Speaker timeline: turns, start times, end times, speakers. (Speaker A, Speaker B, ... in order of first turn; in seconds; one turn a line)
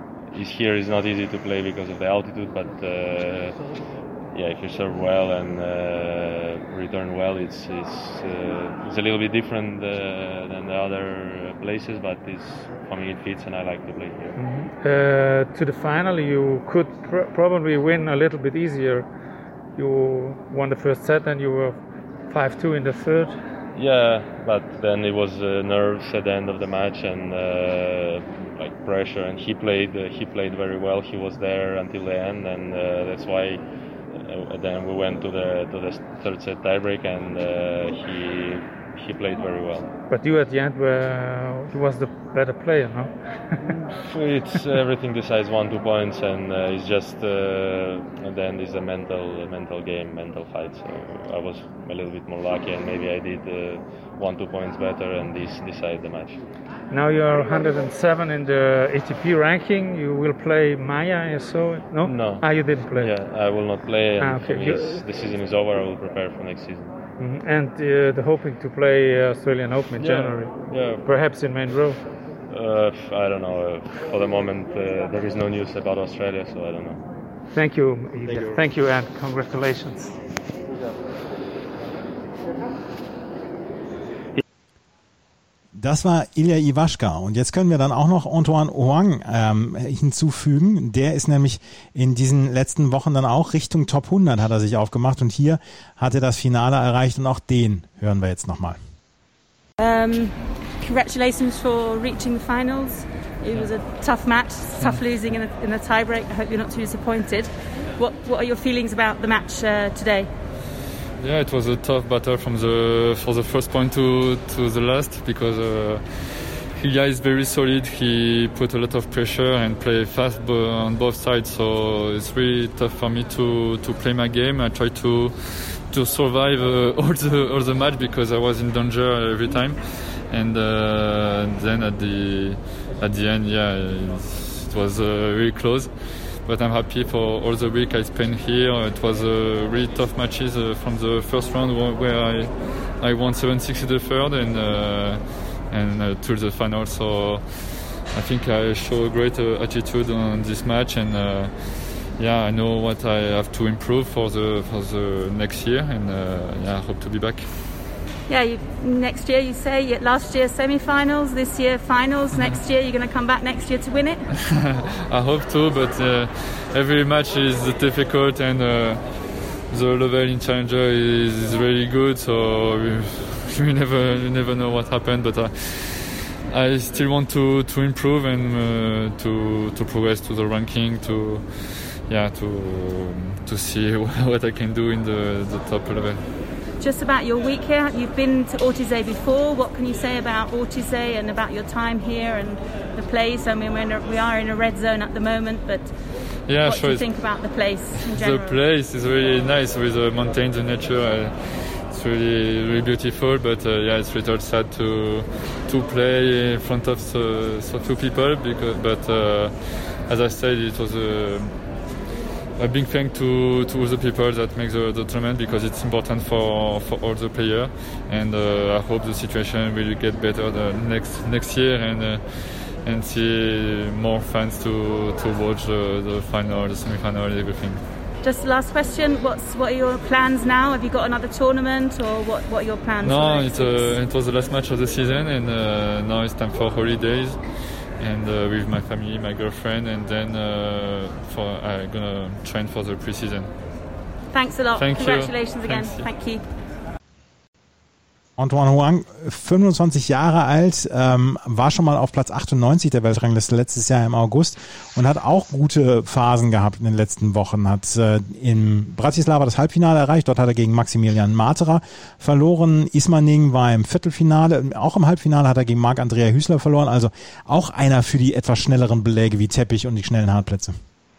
Speaker A: 0.3-3.6
Speaker A: 4.3-14.4
Speaker B: 14.4-19.1
Speaker B: 19.8-21.8
Speaker B: 22.3-23.4
Speaker A: 23.8-39.9
Speaker B: 40.1-43.7
Speaker A: 43.7-56.4
Speaker B: 56.9-63.1
Speaker A: 62.0-66.9
Speaker B: 64.2-65.0
Speaker B: 67.2-72.0
Speaker A: 70.0-71.1
Speaker A: 72.5-77.0
Speaker B: 77.5-80.2
Speaker A: 78.3-78.6
Speaker C: 85.8-98.8
Speaker D: 99.8-110.3
Speaker E: 111.2-129.8
Speaker E: 130.3-135.9
Speaker E: 136.4-147.4
Speaker E: 148.1-151.5
Speaker E: 152.2-157.4
Speaker D: 158.3-164.2
Speaker E: 164.6-169.1
Speaker E: 169.7-186.2
Speaker D: 186.8-195.9
Speaker E: 196.5-197.1
Speaker D: 196.6-198.6
Speaker E: 198.0-211.6
Speaker E: 212.6-222.2
Speaker E: 222.8-227.8
Speaker D: 228.2-234.0
Speaker E: 233.0-237.4
Speaker E: 238.0-243.5
Speaker D: 244.3-246.4
Speaker E: 244.8-246.1
Speaker C: 248.4-270.8